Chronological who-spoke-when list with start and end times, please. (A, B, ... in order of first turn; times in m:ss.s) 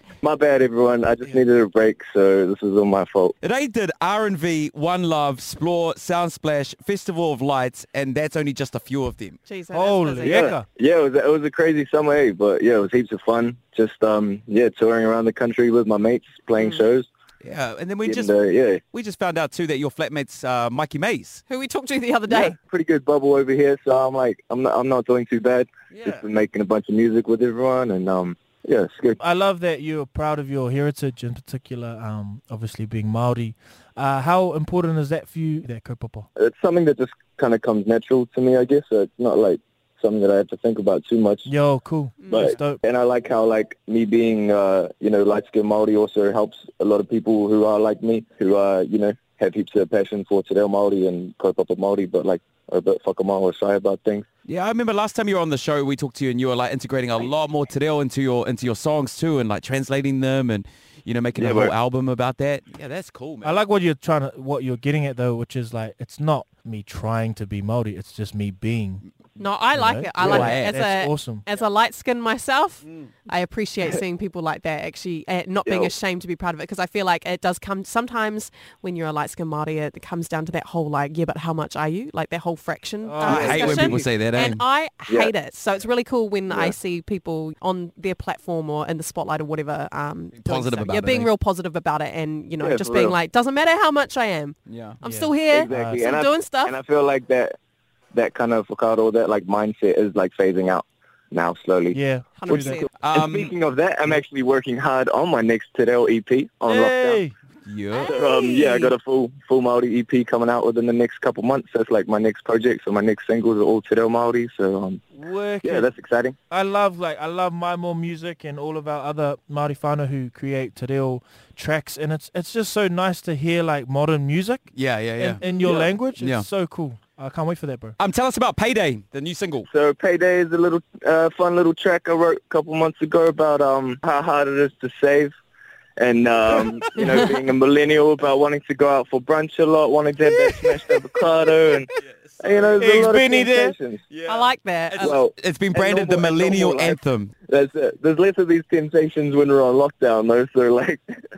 0:00.2-0:03.4 A
0:03.4-0:09.4 B
0:09.5-0:10.5 C
0:09.7-0:10.7 D
0:10.2-0:17.1 A
0:16.6-0:16.8 C
0:17.4-0:18.3 B
0:18.0-0:18.8 A
0:18.9-0:21.4 B
0:21.5-0:22.6 C
0:22.3-0:29.2 A
0:25.9-0:26.2 B
0:29.2-0:36.3 D
0:36.4-0:41.5 A
0:41.5-0:42.8 D
0:42.2-0:42.6 C
0:42.3-0:54.3 A
0:54.5-1:03.6 B
1:01.4-1:01.8 A
1:03.4-1:09.0 D
1:09.4-1:36.8 C
1:09.7-1:11.4 D
1:10.2-1:10.8 B
1:15.7-1:15.9 A
1:23.0-1:23.9 D
1:23.2-1:24.1 A
1:23.2-1:24.6 B
1:25.1-1:25.3 A
1:26.5-1:26.8 A
1:30.3-1:31.3 B
1:32.6-1:33.2 A
1:34.7-1:35.0 B
1:35.0-1:36.0 D
1:35.5-1:37.6 A
1:38.1-1:47.2 A
1:41.9-1:42.8 D
1:42.4-1:42.9 C
1:43.0-1:43.5 B
1:46.6-1:47.4 D
1:47.6-1:48.2 B
1:47.9-1:48.9 C
1:48.1-1:55.0 A
1:55.2-1:55.9 D
1:55.6-1:56.4 A
1:56.5-2:08.0 D
2:04.7-2:05.4 B
2:05.5-2:05.9 A
2:06.2-2:06.5 B
2:08.0-2:09.7 B
2:09.7-2:15.3 A
2:16.0-2:24.0 A
2:22.0-2:23.0 B
2:22.8-2:23.8 D
2:24.1-2:27.3 B
2:24.3-2:25.2 C
2:25.0-2:31.0 A